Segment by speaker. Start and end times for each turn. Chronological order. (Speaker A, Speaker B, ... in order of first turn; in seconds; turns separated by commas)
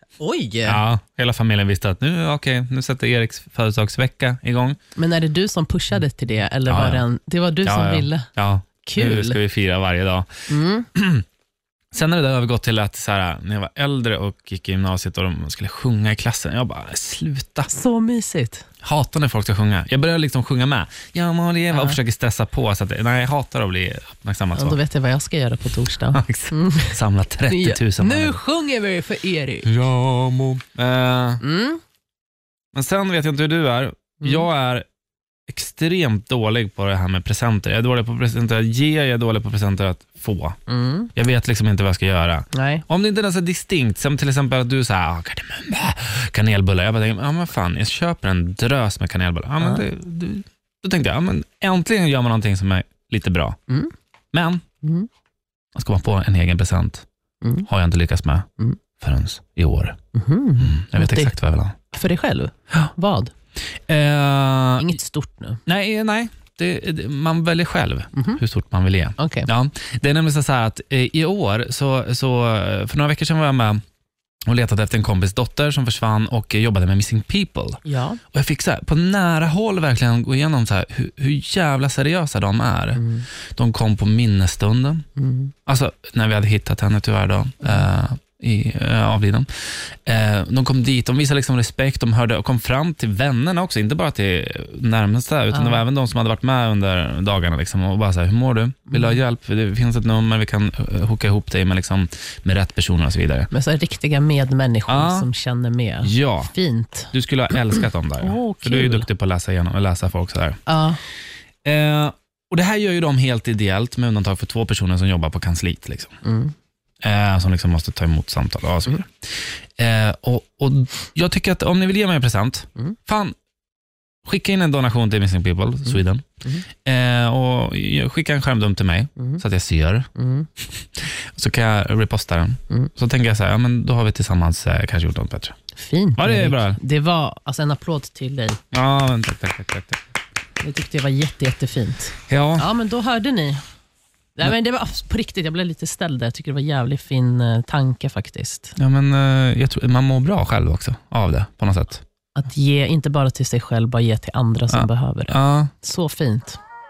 Speaker A: 0.2-0.8, Speaker B: 0.6-4.8, Speaker A: 5.0-8.3, Speaker B: 6.7-7.0, Speaker B: 7.6-10.3, Speaker A: 8.8-9.4, Speaker A: 10.5-10.9, Speaker B: 10.9-11.2, Speaker B: 11.9-17.7, Speaker A: 17.7-18.7, Speaker B: 18.8-24.8, Speaker A: 21.7-22.0, Speaker A: 24.5-26.9, Speaker B: 26.1-28.4, Speaker A: 27.5-29.7, Speaker B: 29.6-31.4, Speaker A: 31.4-31.8, Speaker B: 32.7-34.8, Speaker B: 35.5-40.6, Speaker A: 40.7-41.1, Speaker B: 41.1-53.6, Speaker A: 42.5-42.8, Speaker A: 49.6-49.8, Speaker B: 54.3-54.6, Speaker A: 54.8-55.1, Speaker B: 55.7-57.0, Speaker B: 57.7-58.5, Speaker B: 59.0-60.0, Speaker A: 60.1-61.4, Speaker B: 60.6-61.8, Speaker A: 61.9-63.3, Speaker B: 63.9-65.0, Speaker A: 64.8-65.6, Speaker B: 65.7-73.8, Speaker A: 68.1-68.4, Speaker A: 69.2-69.5, Speaker B: 74.5-85.0, Speaker A: 77.8-78.2, Speaker A: 82.9-83.2, Speaker A: 85.2-85.5, Speaker B: 85.7-103.5, Speaker A: 95.5-95.8, Speaker A: 98.9-99.2, Speaker A: 103.5-107.1, Speaker B: 104.9-105.3, Speaker B: 106.0-106.5, Speaker B: 107.1-110.6, Speaker A: 107.7-109.1, Speaker A: 110.7-111.0, Speaker B: 111.6-116.2, Speaker A: 116.2-116.5, Speaker B: 117.0-123.3, Speaker B: 124.2-126.3, Speaker A: 125.9-126.6, Speaker B: 126.8-130.1, Speaker A: 130.2-130.5, Speaker B: 131.0-135.6, Speaker A: 135.8-138.6, Speaker B: 136.2-136.8, Speaker B: 138.7-140.0, Speaker A: 140.6-143.6, Speaker B: 142.3-142.7, Speaker A: 144.4-148.7, Speaker B: 148.8-152.0, Speaker A: 152.3-156.6, Speaker B: 154.7-155.7